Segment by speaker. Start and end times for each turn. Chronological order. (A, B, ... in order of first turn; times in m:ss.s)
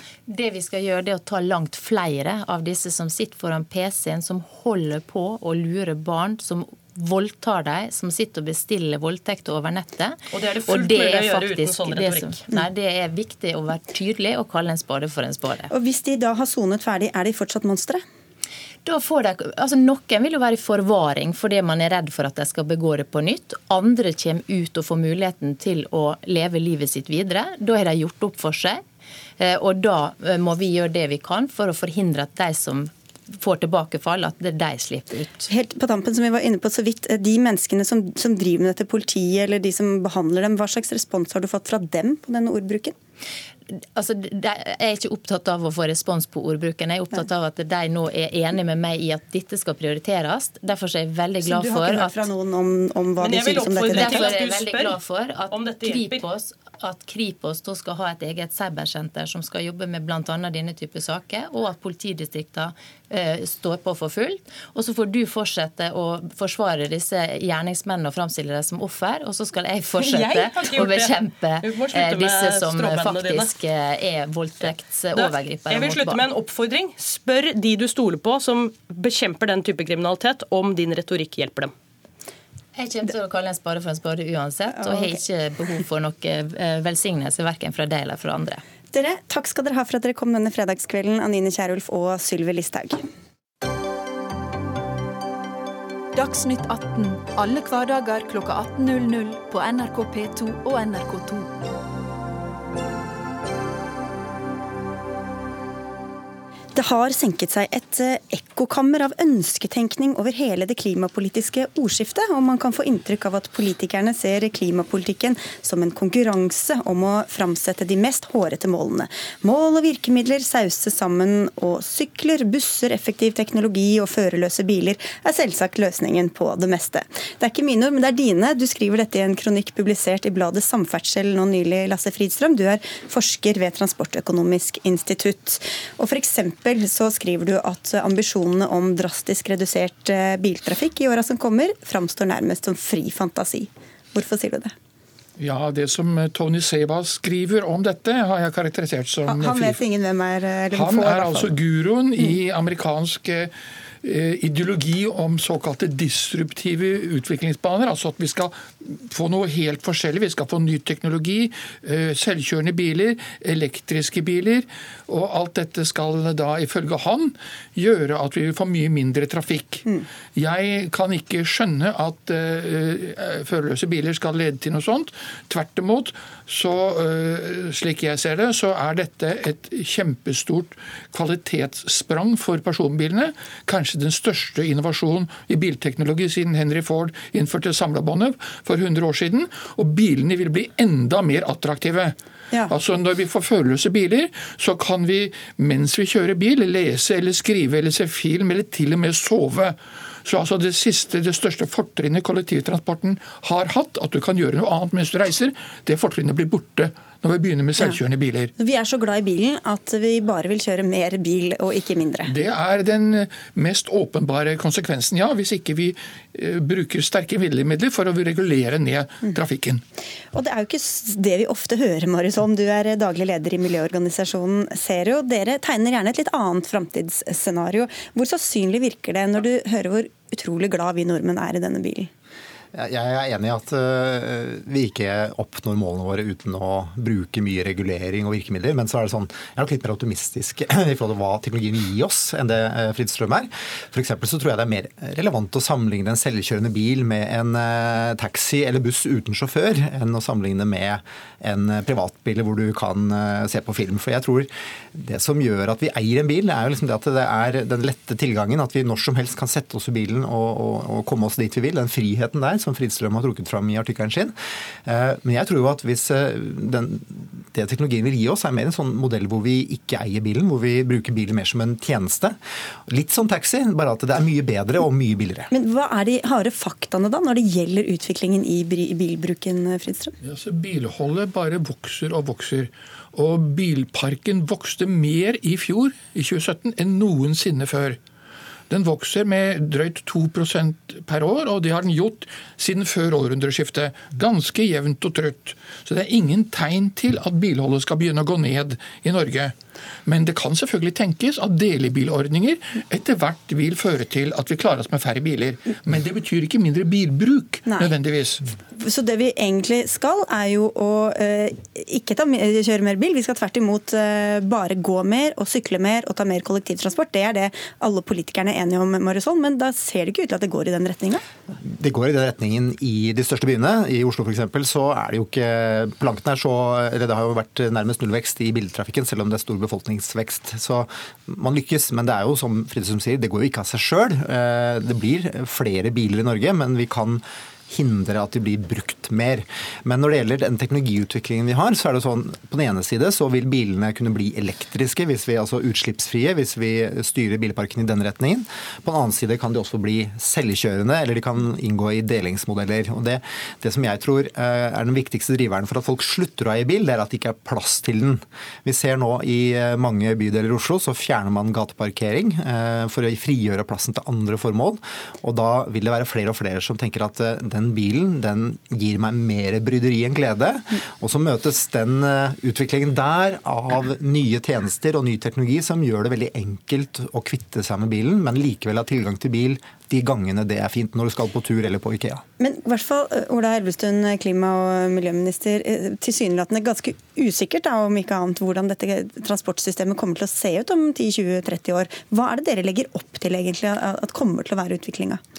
0:00.3-0:15.7 A
0:10.3-0:12.4 B
0:15.7-0:18.0 C
0:18.8-0:28.8 A
0:29.4-0:35.5 A
0:35.5-0:43.0 C
0:43.7-0:52.3 A
0:51.4-0:54.3 C
0:53.2-0:55.0 B
0:53.9-1:16.2 A
0:55.5-0:56.2 B
1:10.0-1:13.5 B
1:15.1-1:21.7 B
1:22.8-1:28.6 A
1:24.8-1:25.2 C
1:28.9-1:33.0 C
1:36.1-1:41.5 D
1:46.8-2:24.7 C
2:25.4-2:29.8 E
2:29.2-2:31.5 C
2:30.7-3:12.2 E
3:12.7-3:28.5 E
3:28.6-3:32.3 C
3:32.2-3:39.8 E
3:40.3-3:52.1 C
3:52.7-4:24.3 F
4:24.8-4:35.5 F
4:35.5-4:40.2 C
4:40.2-4:48.0 E
4:48.7-5:08.5 E
5:07.7-5:07.9 C
5:08.8-5:21.2 C
5:21.6-6:22.2 F
6:22.4-6:35.2 C